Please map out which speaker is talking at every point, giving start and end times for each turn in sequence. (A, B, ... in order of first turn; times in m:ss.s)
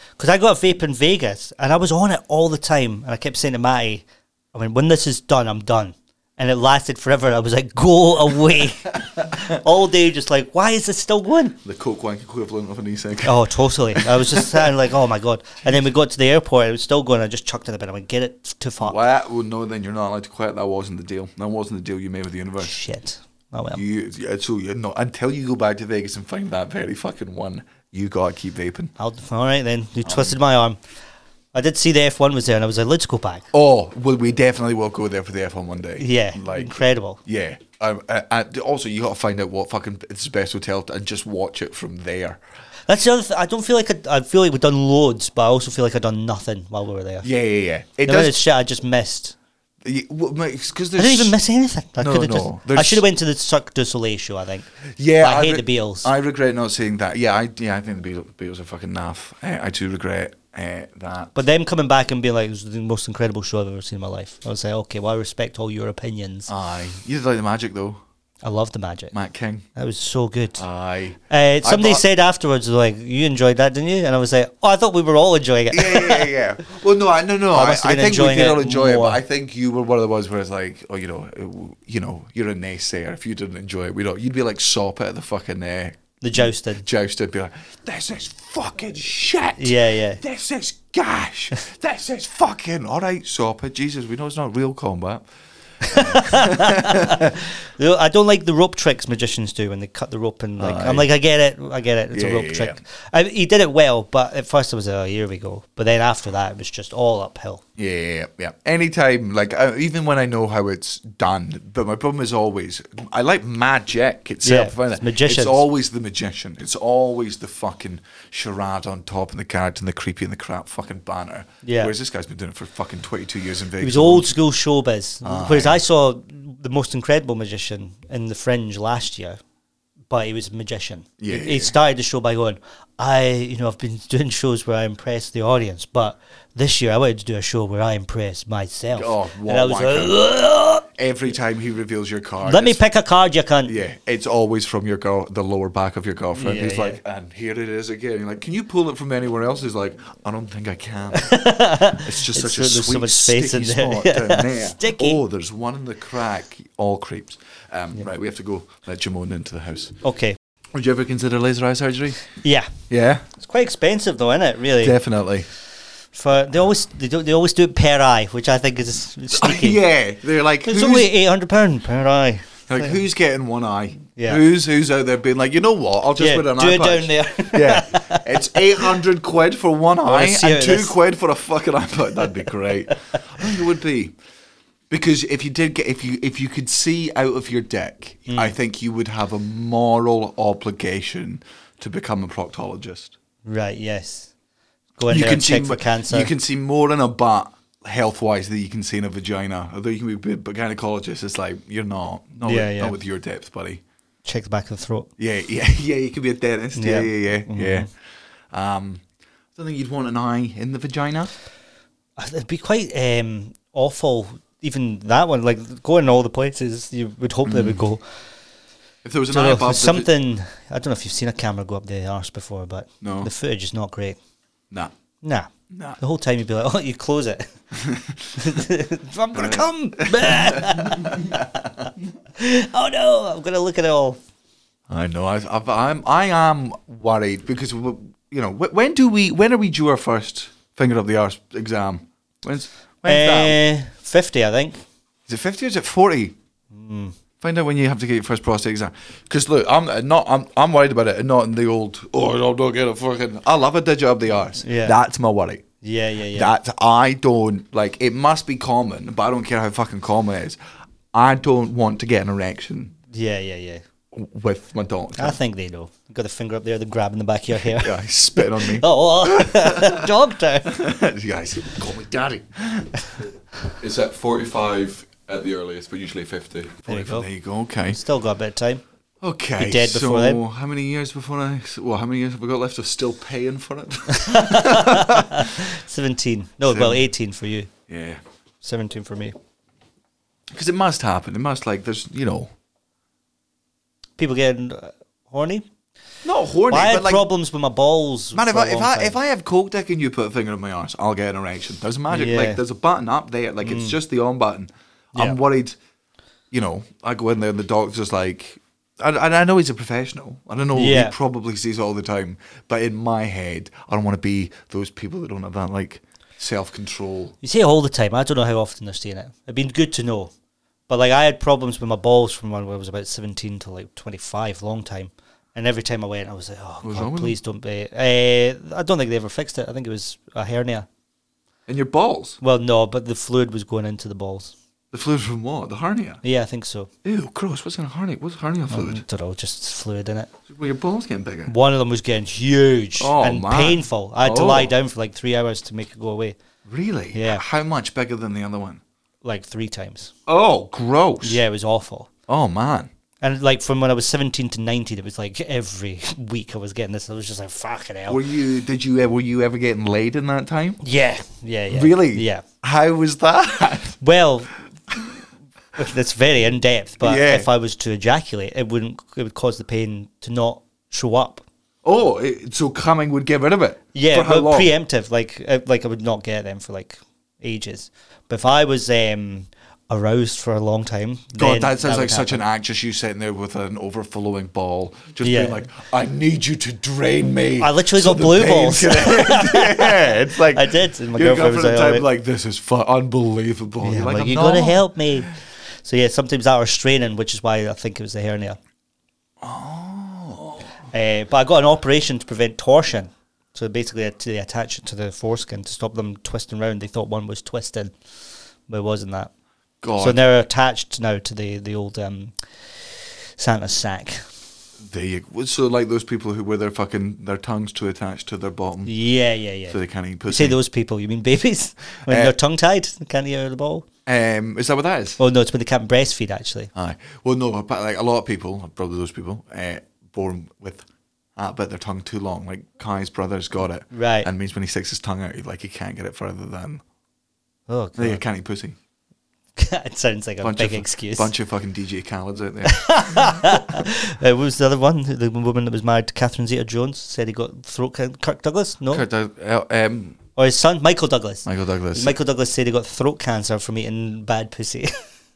0:00.2-0:11.6 A
0:11.6-0:14.7 B
0:13.2-0:19.0 A
0:18.8-0:22.7 B
0:22.6-0:23.8 A
0:23.7-0:28.9 B
0:29.0-0:30.8 A
0:30.0-0:30.4 B
0:31.5-0:33.4 A
0:33.5-0:42.4 B
0:36.0-0:37.2 A
0:42.9-0:47.3 A
0:47.2-0:48.4 B
0:48.0-0:49.3 A
0:49.8-0:51.3 B
0:51.0-0:56.1 A
0:52.0-0:53.0 B
0:55.0-1:01.3 B
1:01.3-1:06.5 A
1:06.5-1:08.0 B
1:08.4-1:09.1 A
1:09.1-1:09.6 B
1:09.8-1:10.6 A
1:10.6-1:12.0 B
1:11.3-1:16.3 A
1:15.7-1:35.2 B
1:17.5-1:19.2 A
1:26.2-1:26.8 A
1:29.6-1:30.2 A
1:35.8-1:37.3 B
1:35.9-1:47.6 A
1:40.6-1:41.1 B
1:42.1-1:42.8 B
1:47.8-2:04.3 B
1:54.4-1:55.6 A
2:01.6-2:01.9 A
2:03.8-2:09.4 A
2:05.2-2:05.8 B
2:10.1-2:20.8 A
2:11.2-2:11.7 B
2:18.9-2:20.2 B
2:20.9-2:22.8 B
2:22.4-2:23.7 A
2:23.6-2:40.0 B
2:26.4-2:27.0 A
2:31.2-2:35.2 A
2:40.0-2:40.4 A
2:40.7-2:42.2 B
2:42.4-2:42.7 A
2:42.9-2:43.2 B
2:43.4-2:45.0 A
2:44.8-2:45.5 B
2:46.1-2:49.8 A
2:49.3-2:51.1 B
2:50.6-2:53.0 A
2:52.7-3:04.1 B
2:56.2-2:58.9 A
3:00.0-3:01.0 A
3:04.9-3:13.1 B
3:08.3-3:08.5 A
3:13.4-3:14.3 A
3:15.0-3:16.3 A
3:15.1-3:23.8 B
3:22.4-3:23.0 A
3:24.2-3:25.1 A
3:25.2-3:27.9 B
3:26.8-3:27.9 A
3:28.5-3:29.0 B
3:29.5-3:31.3 B
3:32.2-3:38.0 A
3:37.4-3:37.8 B
3:39.0-3:40.1 B
3:39.3-3:44.2 A
3:43.0-3:43.3 B
3:45.2-3:47.5 A
3:45.7-3:46.0 B
3:47.8-3:48.3 B
3:48.4-3:54.2 A
3:49.3-3:51.5 B
3:54.9-4:03.6 B
4:03.0-4:04.8 A
4:05.3-4:06.3 B
4:06.7-4:07.1 A
4:07.4-4:15.6 B
4:14.6-4:15.0 A
4:15.8-4:16.5 A
4:16.3-4:20.6 B
4:21.1-4:22.9 B
4:23.1-4:23.8 A
4:24.1-4:25.4 B
4:25.2-4:30.8 A
4:27.7-4:30.1 B
4:30.7-4:33.0 B
4:33.8-4:36.8 C
4:36.8-4:38.0 B
4:36.9-4:37.3 A
4:37.9-4:38.8 A
4:39.2-4:45.5 B
4:39.6-4:40.4 A
4:44.2-4:47.7 A
4:46.6-4:47.0 B
4:47.9-4:48.2 B
4:48.6-4:49.4 A
4:50.5-4:52.5 B
4:54.2-4:55.7 A
4:56.2-4:57.2 B
4:56.7-4:59.2 A
4:58.3-5:05.8 B
5:02.1-5:02.6 A
5:03.6-5:04.0 A
5:06.5-5:17.3 B
5:10.7-5:11.1 A
5:17.4-5:20.3 A
5:20.9-5:30.9 A
5:26.8-5:27.4 B
5:31.7-5:32.4 B
5:32.4-5:34.5 A
5:34.9-5:36.2 B
5:36.2-5:36.9 A
5:37.0-5:39.0 B
5:38.7-5:40.3 A
5:40.5-5:41.5 B
5:41.5-5:46.4 A
5:43.0-5:44.7 B
5:46.6-5:48.8 B
5:47.1-5:47.4 A
5:49.2-5:50.1 A
5:50.3-5:51.4 B
5:51.2-5:52.1 A
5:52.3-5:52.9 B
5:53.2-5:58.2 A
5:58.1-6:00.8 B
6:00.8-6:02.4 A
6:01.7-6:04.0 B
6:04.0-6:04.5 A
6:05.8-6:11.4 A
6:07.0-6:07.5 B
6:11.8-6:14.7 B
6:13.9-6:22.4 A
6:21.4-6:35.0 B
6:25.2-6:25.6 A
6:27.6-6:32.0 A
6:33.8-6:38.6 A
6:39.4-6:40.7 B
6:40.9-6:47.9 A
6:48.7-6:49.3 A
6:49.8-6:50.2 B
6:50.0-6:54.3 A
6:54.8-6:58.9 B
6:58.8-7:03.8 A
6:59.7-7:00.6 B
7:02.1-7:02.3 B
7:04.0-7:05.2 B
7:05.2-7:06.7 A
7:06.7-7:16.8 B
7:13.9-7:14.3 A
7:17.7-7:18.2 A
7:18.0-7:18.8 B
7:19.6-7:21.3 A
7:20.4-7:23.8 B
7:22.7-7:29.0 A
7:28.9-7:30.2 B
7:30.4-7:34.9 A
7:31.4-7:32.2 B